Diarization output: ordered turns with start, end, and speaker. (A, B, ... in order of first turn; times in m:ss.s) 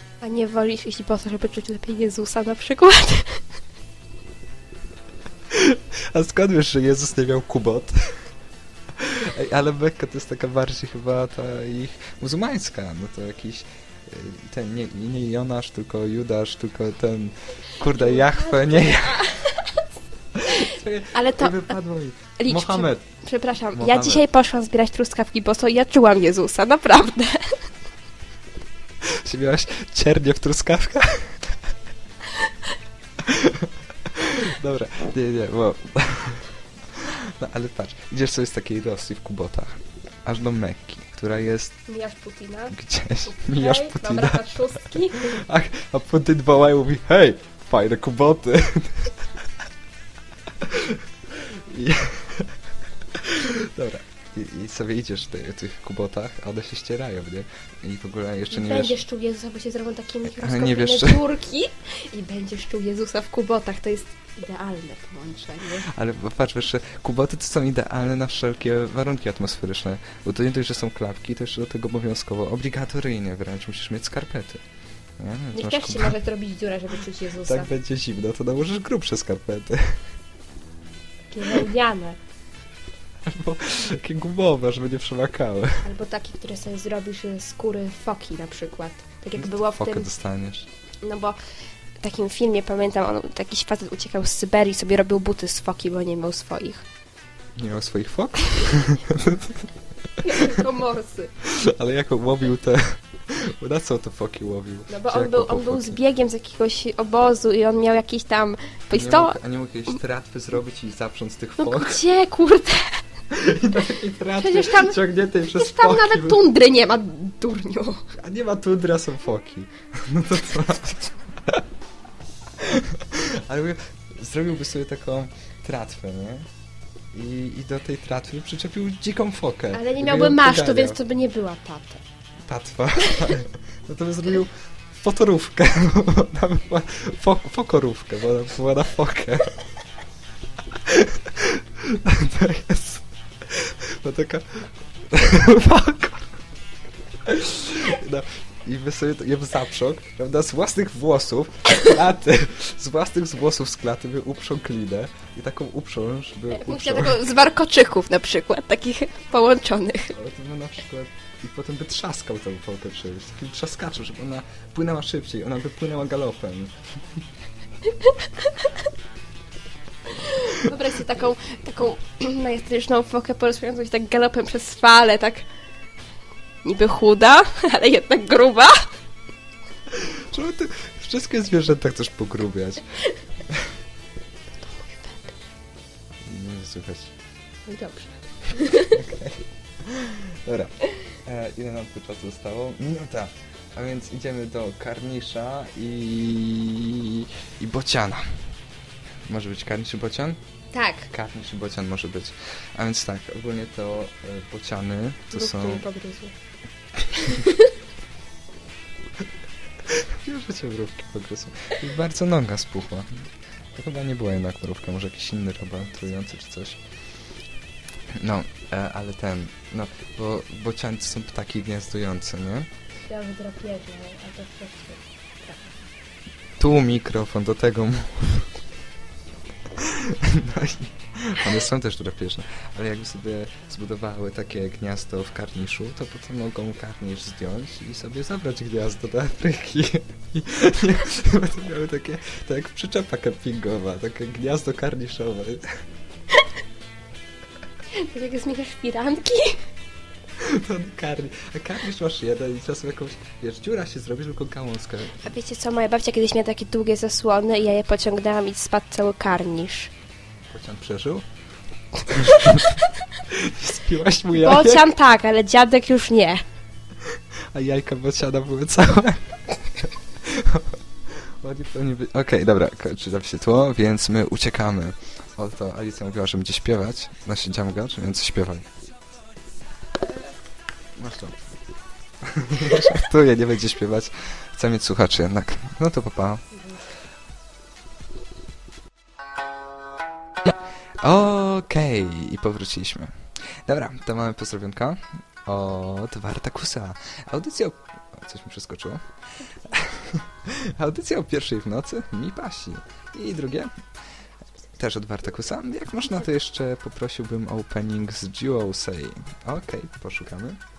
0:00.2-0:03.4 A
0:05.5-0:08.3 B
0:08.9-0:19.4 B
0:17.8-0:19.9 A
0:20.4-0:23.0 B
0:20.4-0:21.8 A
0:22.4-0:27.6 A
0:23.7-0:24.3 B
0:29.0-0:31.7 B
0:33.2-0:41.8 B
0:41.9-0:45.4 A
0:42.7-0:49.4 B
0:50.6-0:59.0 B
0:58.5-1:05.9 A
1:00.2-1:01.2 B
1:05.7-1:14.6 B
1:15.2-1:16.2 B
1:15.5-1:17.7 A
1:17.4-1:20.0 B
1:21.3-1:22.2 A
1:23.2-1:25.9 B
1:25.8-1:30.1 A
1:29.4-1:30.7 B
1:31.0-1:31.4 A
1:32.0-1:36.9 A
1:37.6-1:39.7 B
1:40.2-1:41.3 A
1:41.4-1:46.0 B
1:44.9-1:49.4 A
1:48.9-1:52.0 B
1:51.6-1:53.0 A
1:53.3-1:56.5 B
1:54.4-1:58.0 A
1:58.2-2:01.6 B
2:02.6-2:06.5 B
2:07.1-2:11.0 B
2:09.7-2:12.0 A
2:12.5-2:19.7 B
2:13.0-2:13.4 A
2:20.7-2:26.5 B
2:27.2-2:37.2 B
2:36.5-2:40.2 A
2:40.1-2:46.8 B
2:47.9-2:48.8 A
2:50.1-2:55.4 A
2:56.6-2:58.9 A
2:59.9-3:02.9 B
3:03.5-3:03.8 B
3:04.6-3:05.4 A
3:06.2-3:07.1 B
3:07.7-3:09.0 A
3:08.8-3:18.5 B
3:19.3-3:20.4 B
3:20.7-3:21.1 A
3:21.1-3:25.8 B
3:25.3-3:26.3 A
3:27.2-3:27.7 A
3:29.9-3:36.8 B
3:38.1-3:42.7 B
3:43.1-3:45.7 A
3:46.6-3:48.5 B
3:49.8-4:05.8 B
4:08.0-4:09.6 A
4:10.4-4:15.3 B
4:15.2-4:19.9 A
4:20.5-4:21.3 B
4:22.1-4:24.9 B
4:22.3-4:22.8 A
4:24.3-4:26.4 A
4:27.1-4:38.7 B
4:41.0-4:41.4 B
4:42.2-4:46.5 B
4:50.4-4:59.0 B
4:59.4-4:59.8 A
4:59.6-5:03.7 B
5:04.8-5:10.6 B